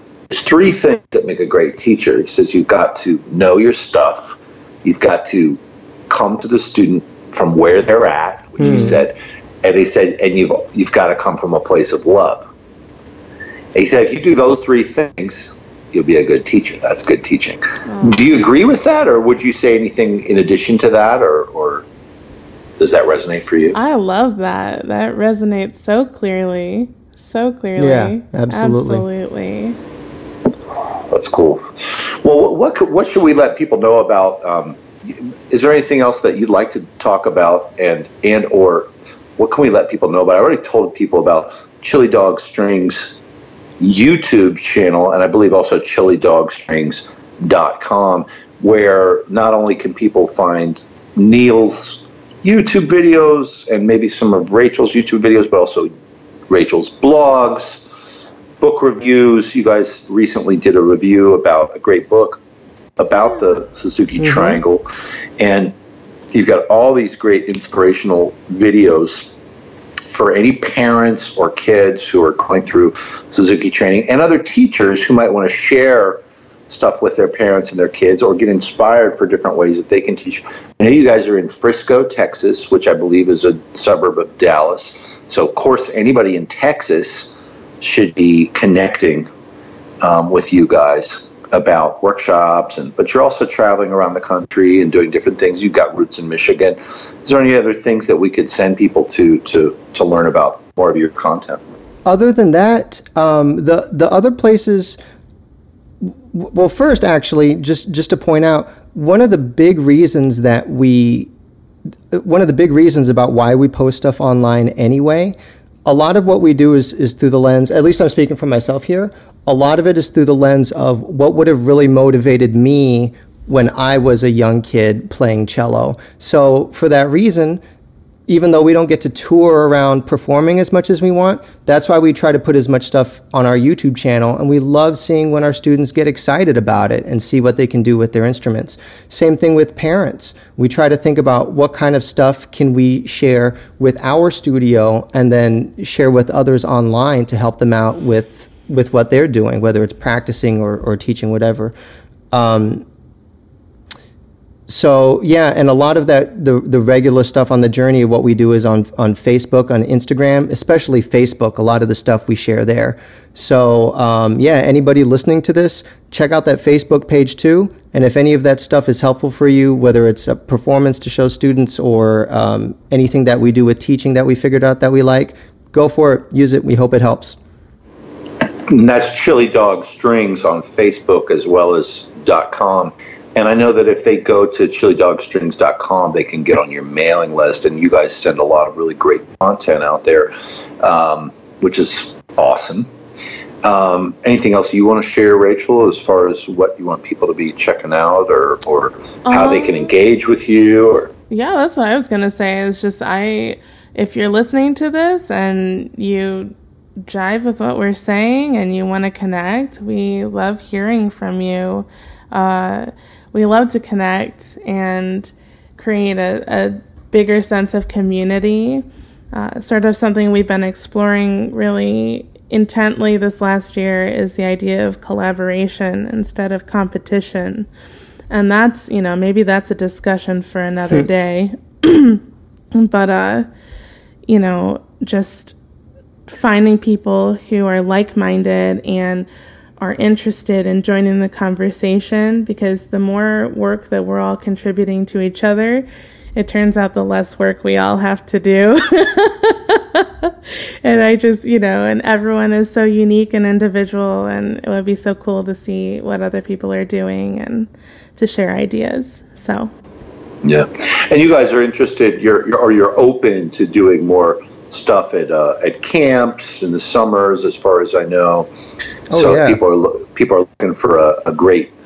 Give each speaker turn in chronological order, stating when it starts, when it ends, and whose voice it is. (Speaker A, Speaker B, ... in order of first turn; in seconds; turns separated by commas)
Speaker A: 0.3-12.5, Speaker B: 8.6-9.0, Speaker A: 13.7-21.9, Speaker C: 17.9-18.2, Speaker A: 22.8-23.8, Speaker C: 23.7-29.8, Speaker B: 27.8-29.1, Speaker A: 31.1-43.1, Speaker A: 43.8-55.9, Speaker A: 56.5-57.8, Speaker A: 58.6-62.4, Speaker A: 63.0-64.8, Speaker B: 64.2-64.6, Speaker A: 65.4-65.7, Speaker A: 66.3-69.3, Speaker A: 70.1-89.3, Speaker A: 90.0-101.6, Speaker B: 102.0-105.0, Speaker B: 106.0-111.3, Speaker B: 112.1-127.6, Speaker B: 128.3-151.7, Speaker B: 152.3-152.8, Speaker B: 154.7-177.4, Speaker A: 178.7-192.9, Speaker A: 193.6-201.1, Speaker C: 199.2-199.9, Speaker C: 201.3-227.7, Speaker C: 228.3-233.5, Speaker C: 234.3-235.6, Speaker C: 236.3-239.3, Speaker C: 239.8-259.7, Speaker A: 260.4-268.5, Speaker B: 269.1-269.6, Speaker A: 269.1-271.7